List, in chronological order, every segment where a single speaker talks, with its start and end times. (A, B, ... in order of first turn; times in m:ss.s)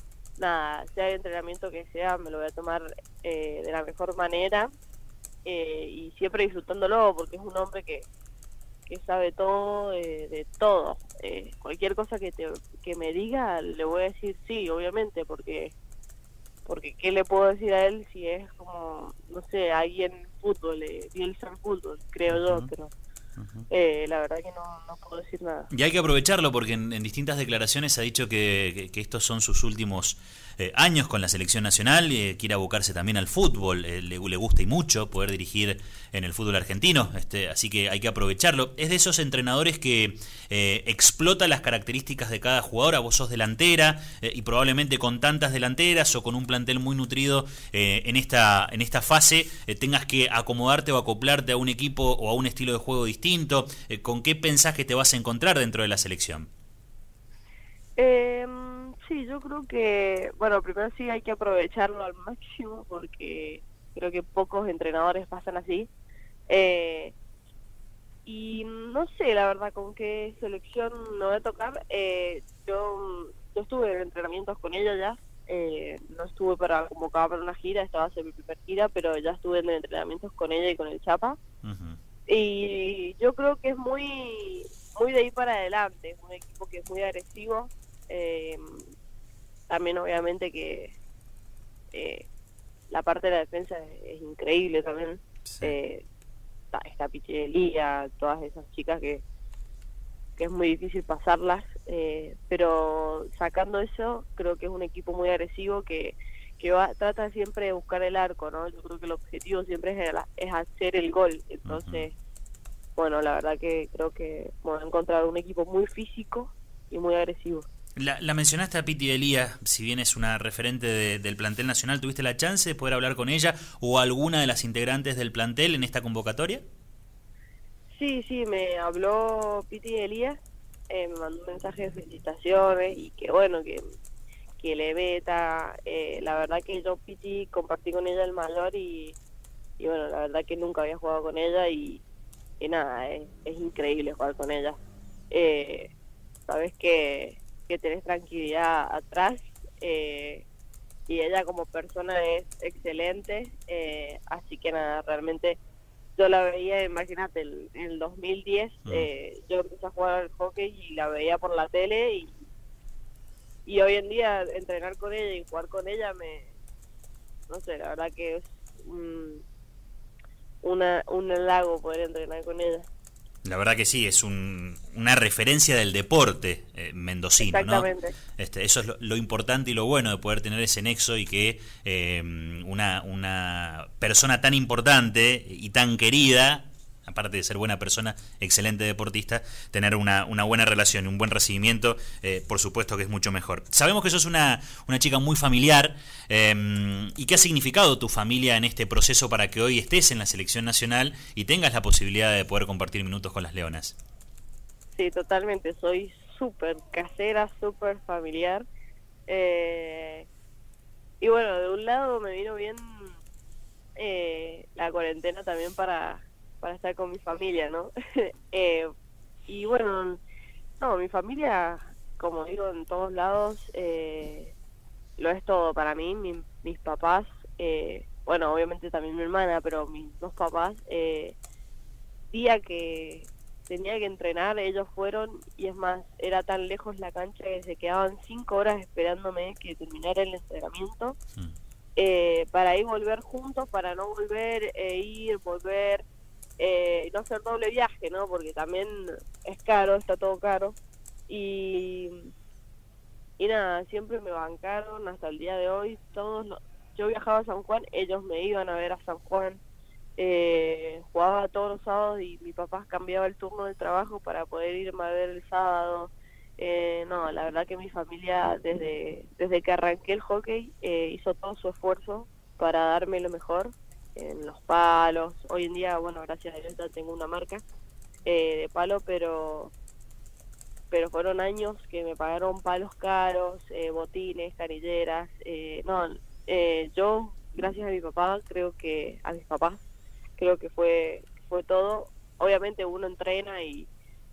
0:00.4-0:04.7 A
0:05.4-0:08.1 A
0:08.9-0:15.7 A
0:16.6-0:22.9 A
0:22.3-0:22.7 B
0:23.4-0:23.7 B
0:23.7-0:25.7 A
0:25.7-0:56.5 B
0:58.0-1:05.9 A
1:06.5-1:07.1 A
1:08.2-1:21.4 A
1:21.6-1:22.0 B
1:22.3-1:28.9 A
1:29.7-1:30.9 A
1:31.9-1:32.2 A
1:32.9-1:36.0 A
1:35.4-1:35.8 B
1:36.7-1:39.2 A
1:40.4-1:52.1 A
1:51.6-1:52.0 B
1:53.0-1:57.7 A
1:58.0-2:06.6 B
2:07.9-2:13.8 A
2:14.6-2:19.2 A
2:19.8-2:22.0 A
2:22.6-2:24.8 A
2:25.3-2:25.9 A
2:26.5-2:30.4 A
2:31.1-2:35.6 A
2:36.2-2:42.4 A
2:43.6-2:46.5 A
2:47.5-2:49.4 A
2:50.6-2:52.9 A
2:53.4-3:24.0 B
2:57.4-2:58.1 A
3:24.9-3:28.6 A
3:29.3-3:30.3 A
3:31.2-3:33.2 A
3:34.0-3:38.9 A
3:39.5-3:40.2 A
3:40.8-3:44.5 A
3:45.2-3:51.4 A
3:52.3-4:01.2 A
4:02.0-4:06.0 A
4:06.6-4:10.8 A
4:11.3-4:12.3 A
4:13.4-4:19.6 A
4:20.2-4:37.6 A
4:38.2-4:39.7 A
4:40.9-4:49.8 A
4:50.4-4:53.9 A